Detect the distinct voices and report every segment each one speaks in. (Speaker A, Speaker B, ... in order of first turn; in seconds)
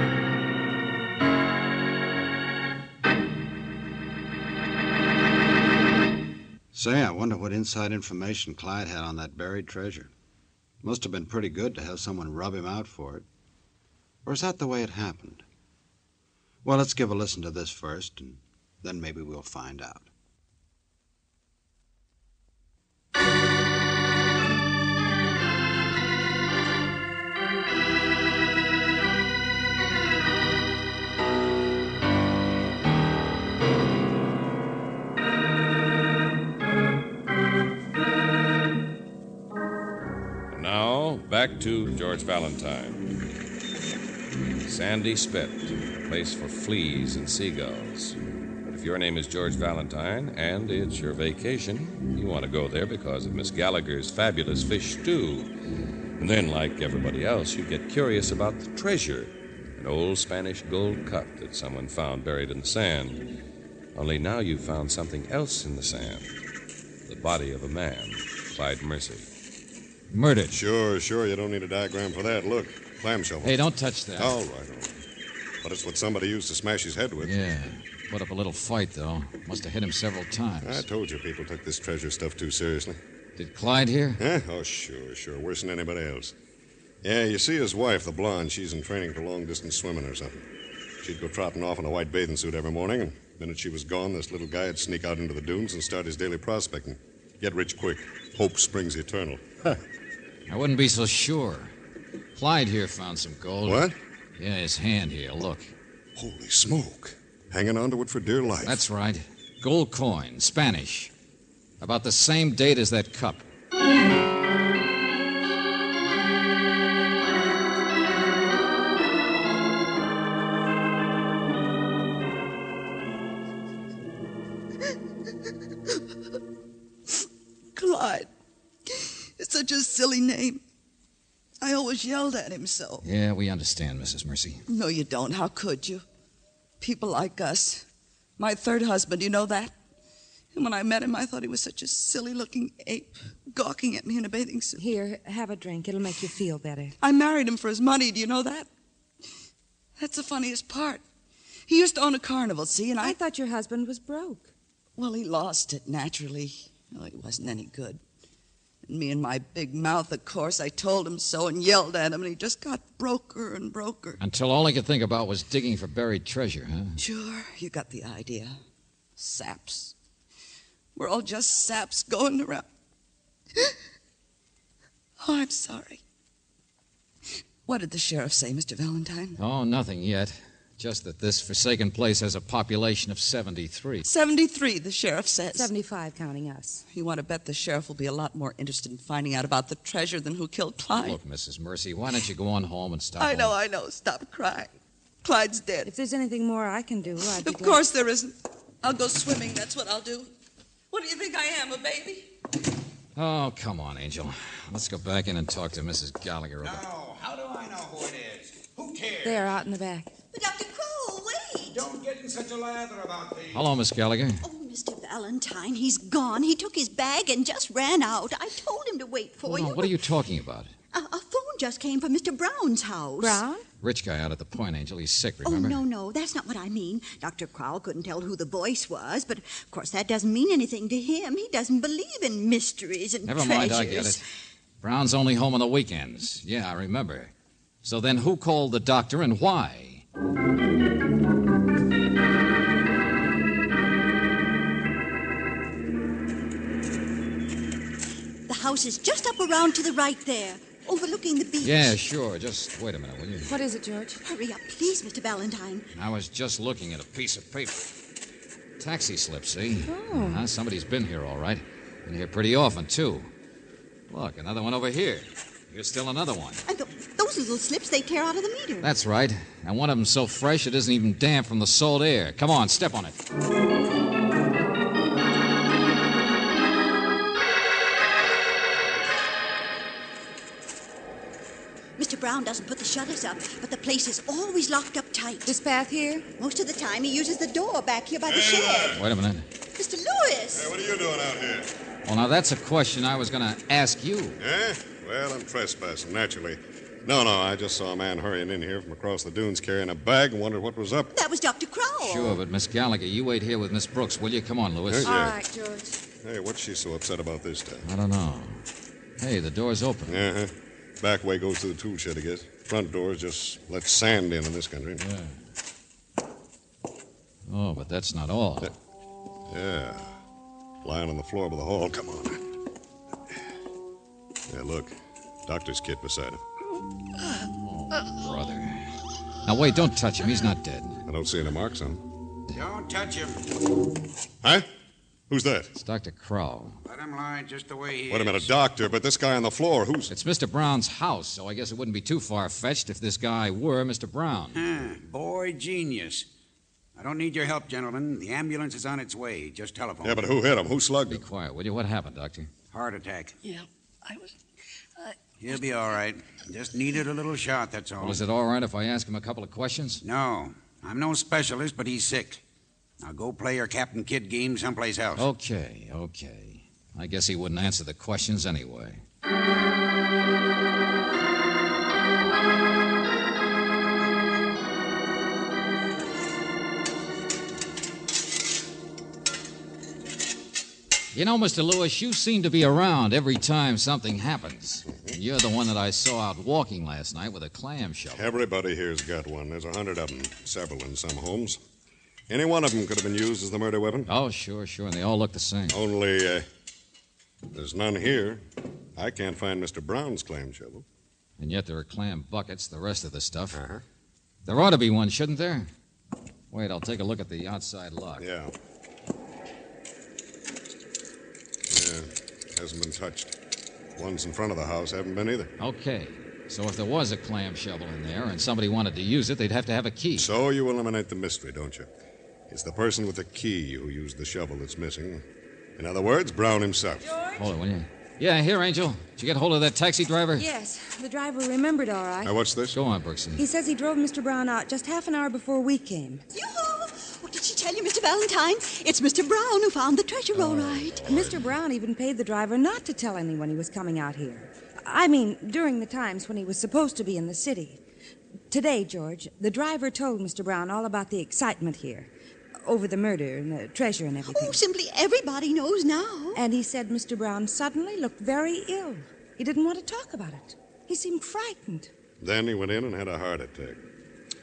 Speaker A: 6.7-10.1, 10.8-13.2, 14.2-15.4, 16.6-20.1
Speaker B: 40.5-43.1, 44.6-55.5, 56.2-63.3, 63.9-66.3, 67.1-69.3
Speaker C: 70.1-70.6, 73.4-74.4, 77.2-80.8, 83.4-84.2, 100.5-101.7, 102.4-103.9, 104.4-105.7, 108.6-111.1, 111.8-113.5, 133.0-134.6, 164.2-167.0, 179.4-184.1, 190.9-193.6, 203.2-206.8, 213.5-214.4, 219.4-220.7, 223.8-225.8, 233.2-234.2, 234.8-237.3, 237.8-240.0, 251.6-253.5, 255.9-257.9, 258.8-263.3, 264.1-266.6, 268.8-273.2, 288.9-289.5, 292.1-294.4, 302.0-305.2, 307.8-308.6, 309.2-310.2, 315.0-315.4, 317.5-318.7, 327.6-328.9, 329.4-331.0, 335.8-336.8, 340.1-344.6, 351.1-352.5, 358.0-360.0, 365.2-369.0, 381.1-388.3, 394.1-395.8, 401.4-403.6, 404.5-405.7, 406.5-408.2, 415.6-420.3, 427.4-430.4, 432.7-433.4, 440.4-441.5
Speaker D: 70.5-73.6, 74.2-75.0, 75.6-77.4, 80.6-83.0, 84.2-86.3, 87.0-90.5, 91.0-99.8, 103.6-104.0, 106.2-108.8, 288.3-289.1, 290.5-291.7, 294.4-301.1, 304.9-305.4, 306.2-307.9, 310.1-315.0, 319.5-320.2, 320.8-322.4, 324.5-326.4, 331.1-332.0, 334.4-334.7, 335.3-335.7, 338.1-340.1, 350.0-351.3, 384.9-385.2, 388.1-391.6, 392.3-394.1, 395.7-396.5, 397.5-398.4, 399.0-400.9, 403.5-403.8, 408.2-408.5, 411.7-413.4, 413.9-415.5, 420.2-421.9, 422.5-425.2, 425.8-427.0, 432.2-432.8, 462.2-463.8
Speaker E: 127.8-128.3, 128.9-130.6, 131.6-133.1, 134.7-136.0, 136.8-137.9, 138.4-139.8, 140.5-144.8, 147.0-148.7, 150.0-151.0, 151.7-153.2, 155.0-158.0, 158.9-164.2, 167.0-168.6, 169.2-169.9, 170.9-172.7, 175.2-176.0, 177.7-179.4, 184.0-185.7, 186.9-191.2, 193.2-195.9, 197.4-200.3, 200.9-202.3
Speaker F: 144.8-147.0, 153.0-154.5, 185.5-186.8, 195.9-197.8, 209.2-210.1, 223.2-223.7, 253.5-254.2, 259.9-260.4, 285.5-286.3, 305.0-306.0, 427.0-427.4, 430.4-432.3, 433.4-436.2, 441.1-447.8, 448.5-452.1, 452.6-454.6, 456.4-461.9
Speaker G: 206.6-209.5, 211.7-213.7, 332.5-333.4, 336.9-338.5, 344.5-346.3, 347.0-350.3, 352.7-353.4, 355.4-358.2, 360.0-362.4, 363.0-365.3
Speaker H: 210.3-211.9, 214.4-220.1, 220.9-223.4, 225.4-234.2, 248.5-252.0, 254.2-255.9, 266.7-268.9, 282.0-285.5, 286.4-289.0, 289.8-290.7, 301.1-302.4, 436.3-441.0, 454.2-456.4